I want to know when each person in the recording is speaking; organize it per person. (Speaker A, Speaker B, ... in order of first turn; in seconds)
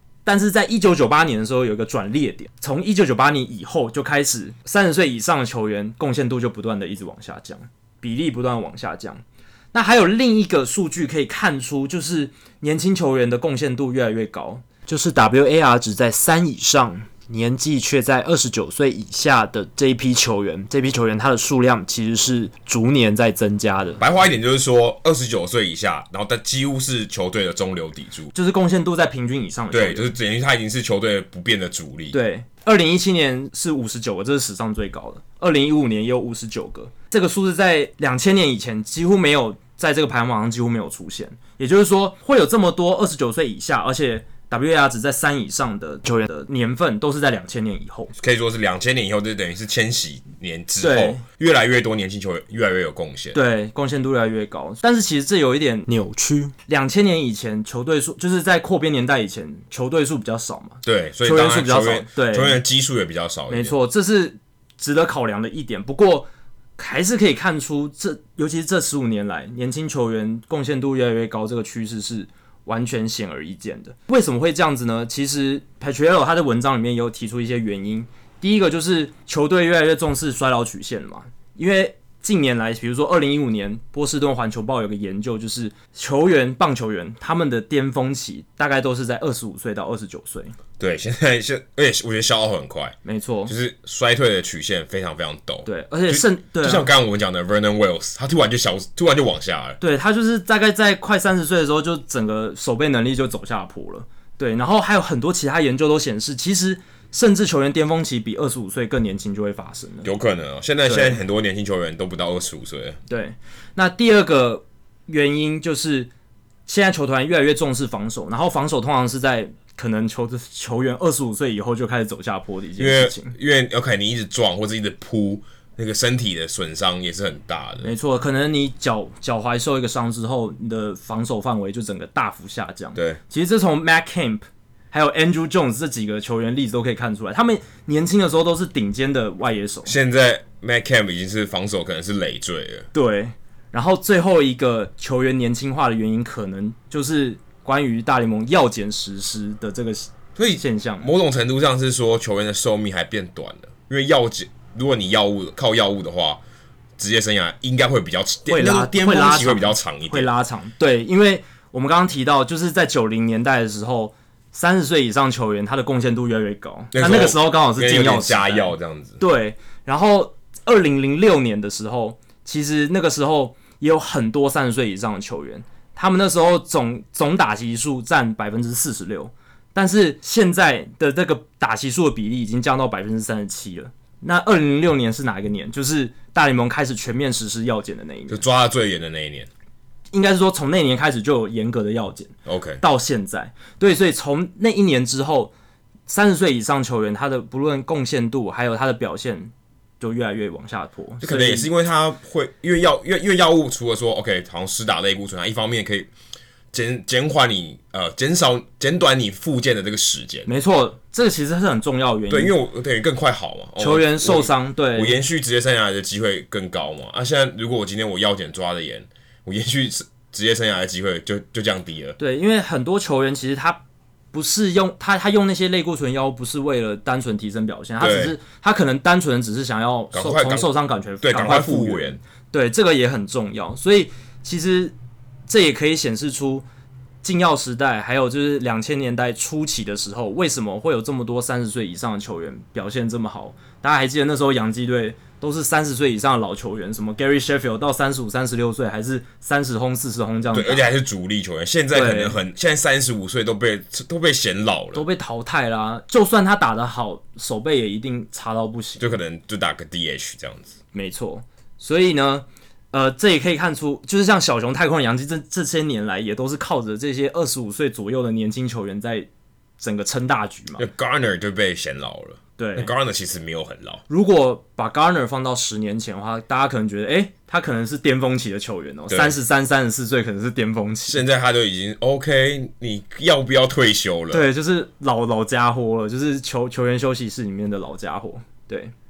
Speaker A: 0.2-24.0, 28.3-30.1, 32.1-48.1, 50.8-51.2, 53.3-62.6, 63.5-90.6, 93.0-93.5, 95.7-96.9, 99.8-110.1, 110.8-111.2, 113.1-116.1, 116.7-123.4, 127.8-139.9, 142.9-151.1, 158.5-188.4, 190.1-195.5, 196.1-201.7, 210.5-212.5, 213.8-215.2, 222.2-223.8, 224.3-234.9, 235.5-236.7, 237.2-250.9, 251.9-252.4, 254.9-259.0, 260.9-270.9, 272.6-272.9, 274.1-281.2, 284.3-288.9
Speaker B: 24.0-28.3, 29.7-32.2, 48.2-53.4, 60.8-63.7, 90.8-99.8, 110.0-113.0, 122.8-127.9, 132.9-133.2, 139.8-142.9, 150.4-156.4, 157.0-160.3, 166.9-169.2, 188.3-189.5, 192.5-192.8, 201.2-206.1, 206.7-210.5, 212.3-222.2, 228.0-228.4, 230.1-230.7, 231.2-232.2, 250.5-255.1, 259.0-260.8, 270.8-274.0, 279.1-279.4, 281.1-284.5